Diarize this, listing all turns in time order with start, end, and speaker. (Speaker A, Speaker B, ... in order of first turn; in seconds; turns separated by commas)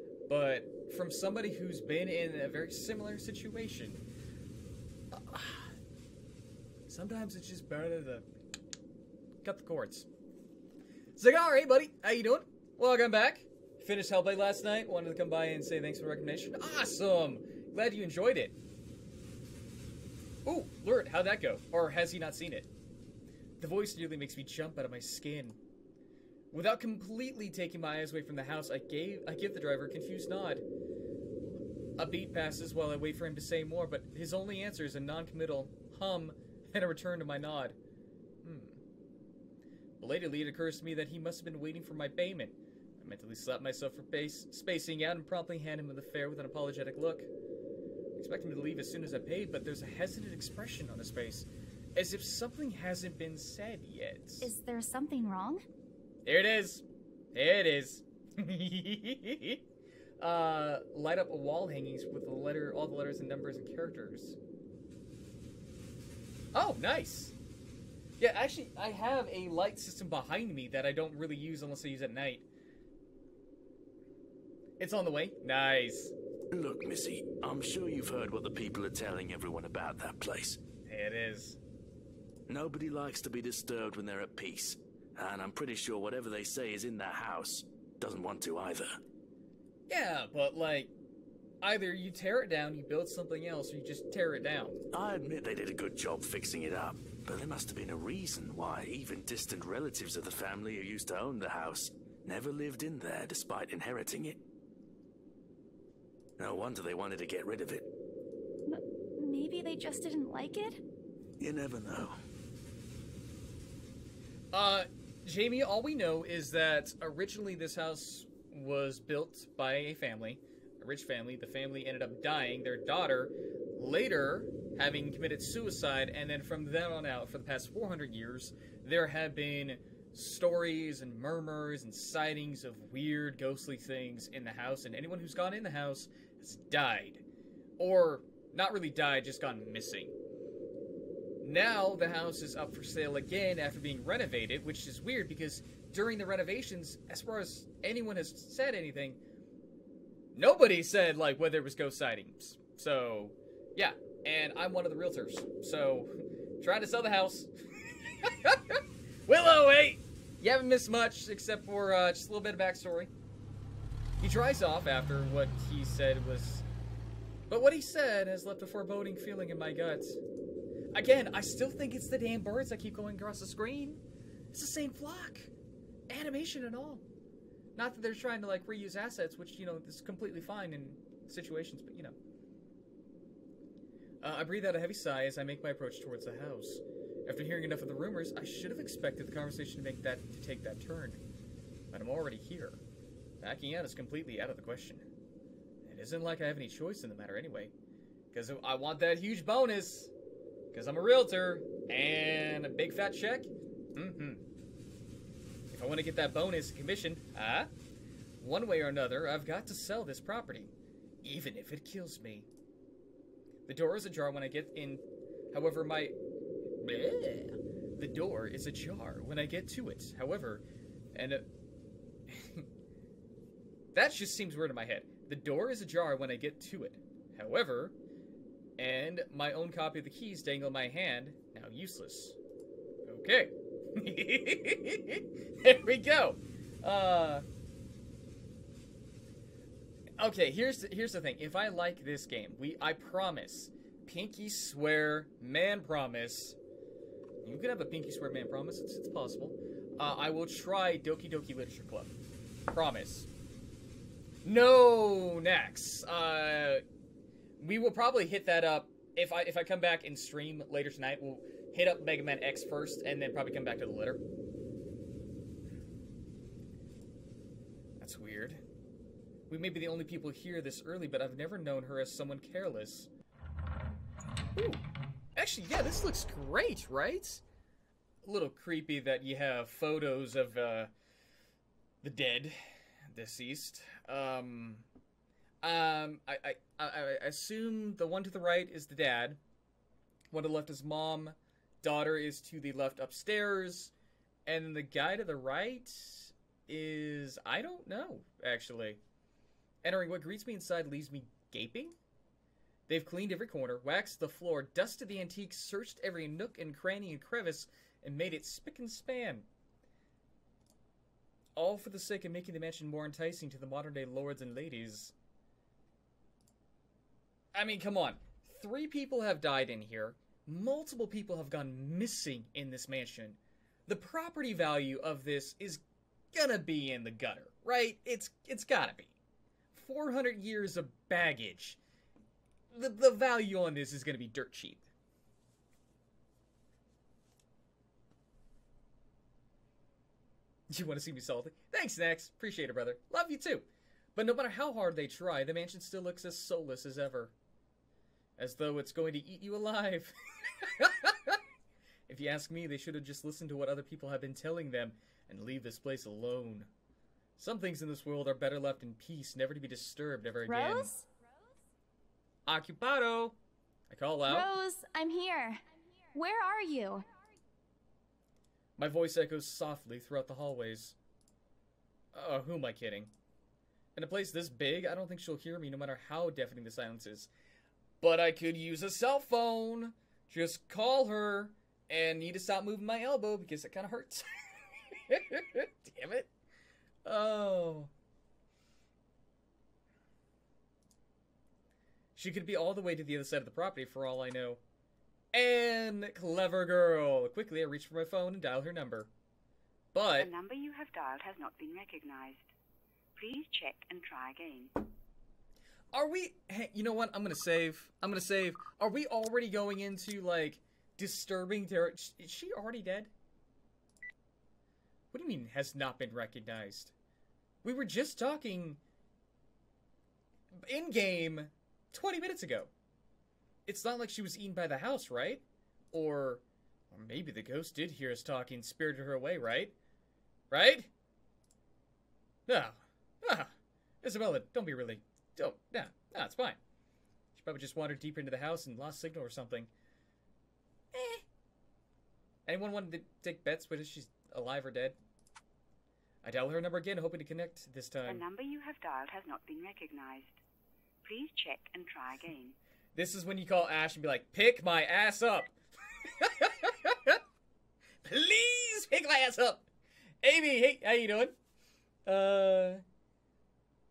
Speaker A: 0.3-4.0, Speaker A: 5.1-5.7, Speaker A: 6.9-8.3, Speaker A: 9.4-10.1, Speaker A: 11.2-18.6, Speaker A: 20.4-22.7, Speaker A: 23.6-25.6, Speaker A: 26.5-30.6, Speaker A: 32.0-37.8, Speaker A: 38.4-38.8, Speaker A: 40.0-47.3, Speaker A: 48.1-54.5, Speaker B: 54.4-55.6, Speaker A: 56.2-59.6, Speaker A: 60.2-64.4, Speaker A: 66.5-67.3, Speaker A: 68.2-72.5, Speaker A: 74.8-76.1, Speaker C: 76.5-80.6, Speaker A: 80.8-81.6, Speaker C: 82.5-89.0, Speaker A: 89.9-90.9, Speaker A: 91.6-94.8, Speaker C: 94.9-104.4, Speaker C: 106.4-107.9, Speaker B: 108.7-110.8, Speaker C: 111.4-112.2, Speaker A: 114.5-137.2, Speaker A: 137.8-140.1, Speaker A: 141.4-149.2, Speaker A: 150.3-163.1, Speaker A: 164.2-166.6, Speaker A: 167.5-170.2, Speaker A: 170.9-174.0, Speaker A: 174.5-175.5, Speaker A: 176.1-177.0, Speaker A: 177.8-182.1, Speaker A: 184.2-191.2, Speaker A: 191.9-192.8, Speaker A: 193.4-195.0, Speaker A: 195.8-197.7, Speaker A: 198.3-200.1, Speaker A: 200.7-204.4, Speaker A: 205.7-207.7, Speaker A: 208.4-210.7, Speaker A: 211.2-212.5, Speaker A: 213.7-216.2, Speaker A: 216.8-221.4, Speaker A: 222.3-222.7, Speaker A: 223.9-227.9, Speaker A: 228.8-232.4, Speaker A: 233.1-237.4, Speaker A: 240.2-246.6, Speaker A: 247.4-252.1, Speaker A: 252.7-253.3, Speaker A: 254.4-256.8, Speaker A: 257.6-264.2, Speaker A: 268.0-268.6, Speaker A: 269.5-273.1, Speaker A: 274.6-274.8, Speaker A: 275.4-277.4, Speaker A: 278.2-280.9, Speaker A: 282.0-282.6, Speaker A: 283.1-284.9, Speaker A: 285.6-289.4, Speaker A: 290.3-293.9, Speaker A: 294.4-299.0, Speaker A: 299.8-301.9, Speaker A: 302.9-309.5, Speaker A: 311.6-315.1, Speaker A: 317.5-329.1, Speaker A: 329.7-331.8, Speaker A: 332.7-334.8, Speaker A: 340.7-347.3, Speaker A: 348.4-351.4, Speaker A: 352.1-356.7, Speaker A: 357.4-360.9, Speaker B: 360.5-361.1, Speaker A: 362.4-363.4, Speaker A: 363.9-364.5, Speaker B: 364.3-365.6, Speaker B: 366.1-367.0, Speaker A: 368.8-370.9, Speaker A: 372.1-373.1, Speaker A: 373.9-377.3, Speaker A: 378.0-386.3, Speaker A: 387.0-387.9, Speaker A: 392.1-394.6, Speaker A: 395.3-399.1, Speaker A: 399.9-400.3, Speaker D: 400.1-402.5, Speaker D: 403.2-404.9, Speaker A: 405.9-413.1, Speaker A: 415.1-416.9, Speaker A: 417.6-418.8, Speaker A: 420.5-422.7, Speaker A: 423.6-429.7, Speaker A: 430.5-430.9, Speaker A: 432.5-436.6, Speaker A: 437.4-439.7, Speaker A: 440.9-441.2, Speaker A: 442.4-445.0, Speaker A: 446.2-448.2, Speaker D: 448.1-450.4, Speaker D: 451.0-452.5, Speaker A: 452.9-457.2, Speaker A: 458.0-459.7, Speaker A: 460.2-461.3, Speaker A: 462.1-462.8